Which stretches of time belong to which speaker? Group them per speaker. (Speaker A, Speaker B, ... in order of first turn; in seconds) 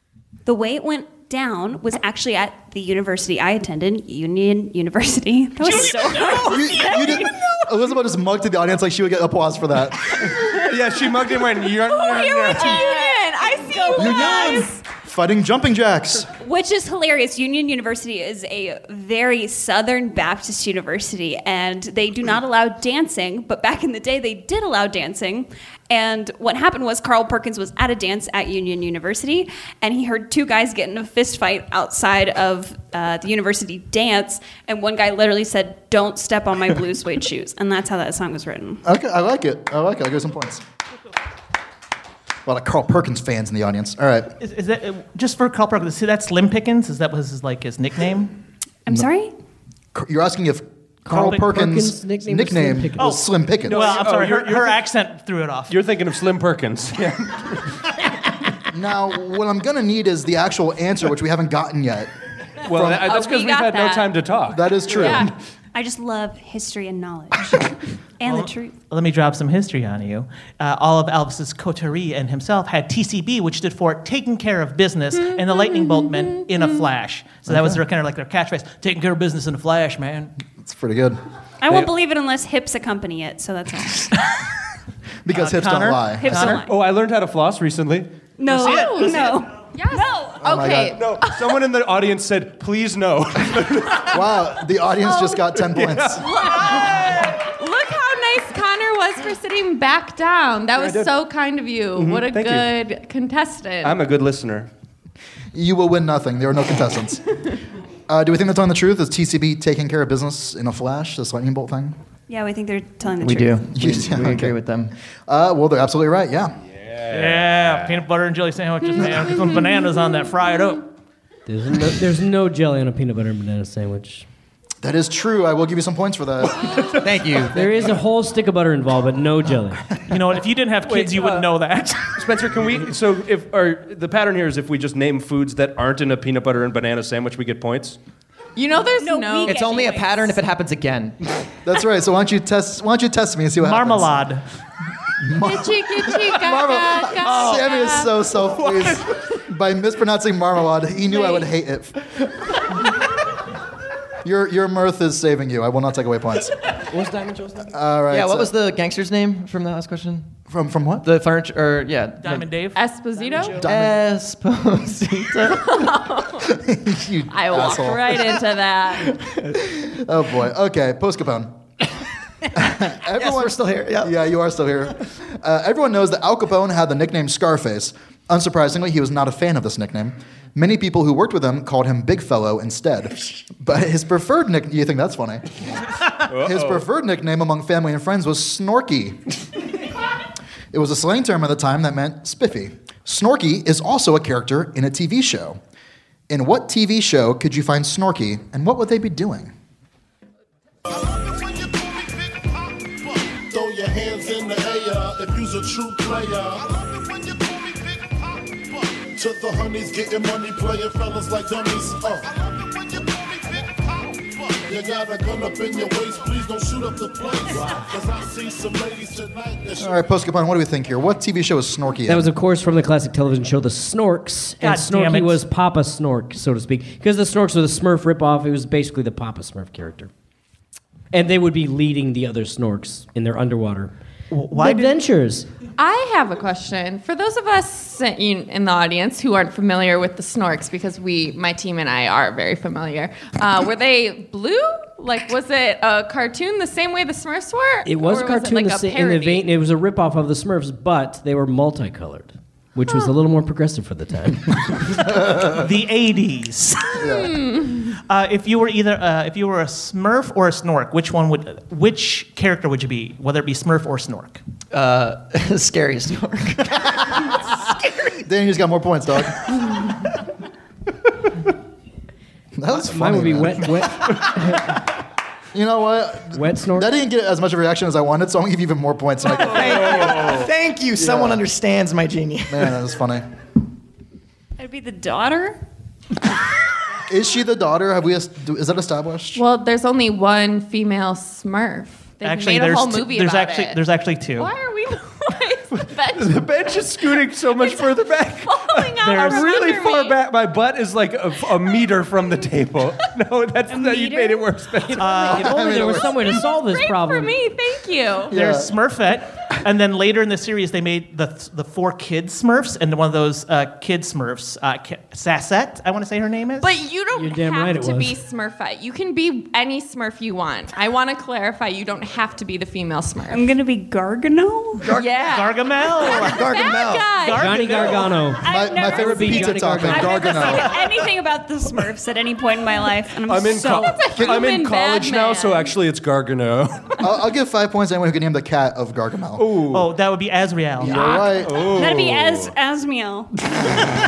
Speaker A: 0.5-7.3, 12.8-14.6, 16.4-38.8, 48.9-49.3, 65.7-68.7, 81.6-84.2, 86.2-86.7, 88.4-90.5, 112.3-113.6, 139.0-140.3, 284.6-285.6, 303.7-304.6, 323.3-324.9, 328.4-334.0, 340.9-343.3
Speaker B: 6.4-10.3, 13.9-16.3, 38.8-40.6, 42.5-44.3, 49.9-53.9, 58.7-62.1, 62.7-63.1, 64.5-65.3, 77.5-77.8, 80.6-81.2, 85.2-86.6, 90.4-91.0, 94.1-96.3, 105.5-107.4, 108.1-112.0, 113.7-114.5, 115.3-116.5, 124.8-126.8, 141.6-144.1, 145.2-152.3, 154.2-156.5, 157.6-158.5, 160.5-161.0, 163.5-164.1, 166.4-168.4, 169.5-171.5, 172.5-185.4, 186.3-189.2, 190.7-195.6, 196.3-199.5, 219.8-222.3, 256.9-257.4, 268.1-270.1, 272.6-274.1, 275.5-280.4, 280.9-281.4, 282.5-283.2, 287.1-289.4, 305.3-306.2, 308.3-308.7, 328.5-330.8, 337.0-339.5, 340.8-341.7
Speaker C: 6.6-7.0, 11.8-14.8, 63.0-64.2, 64.9-65.3, 75.2-76.8, 88.6-89.2, 89.7-91.6, 96.2-104.0, 138.6-140.1, 145.4-148.1, 151.1-151.4, 162.7-163.6, 165.7-166.5, 167.3-169.1, 235.8-249.5, 257.0-257.8, 289.3-293.8, 294.4-300.2, 306.5-308.3, 316.6-323.4, 324.9-327.6, 333.6-335.7
Speaker D: 10.5-12.9, 53.7-54.8, 55.7-57.8, 62.6-65.3, 86.4-88.1, 90.9-94.3, 95.3-97.0, 100.8-101.1, 102.0-102.7, 103.8-104.7, 116.9-118.0, 130.8-131.5, 132.1-138.0, 186.3-186.8, 295.7-305.3, 333.2-337.1, 339.4-339.9, 341.0-342.5
Speaker E: 44.4-48.4, 53.0-55.8, 68.2-80.3, 85.3-86.6, 88.5-89.4, 117.1-120.9, 130.1-132.2, 143.6-144.4, 162.2-162.8, 224.6-225.4, 234.3-235.0, 255.1-257.0, 258.1-264.4, 292.2-294.5, 299.0-299.5, 304.9-305.7, 308.3-316.7, 325.2-326.6, 327.1-328.3, 339.7-341.1
Speaker F: 51.1-53.1, 121.5-124.2, 127.5-129.8, 222.1-230.1, 231.1-233.9, 234.5-235.5, 247.8-254.9, 272.7-274.8, 276.3-276.9, 305.0-307.4, 317.1-318.1, 327.4-330.2
Speaker G: 113.2-114.9, 126.9-127.9, 139.4-141.2, 147.2-147.6, 158.1-160.3, 161.0-162.5, 163.6-165.9, 169.1-169.5, 173.1-174.1, 264.7-267.4, 279.3-282.8, 324.8-325.1, 326.2-327.1
Speaker H: 200.9-220.0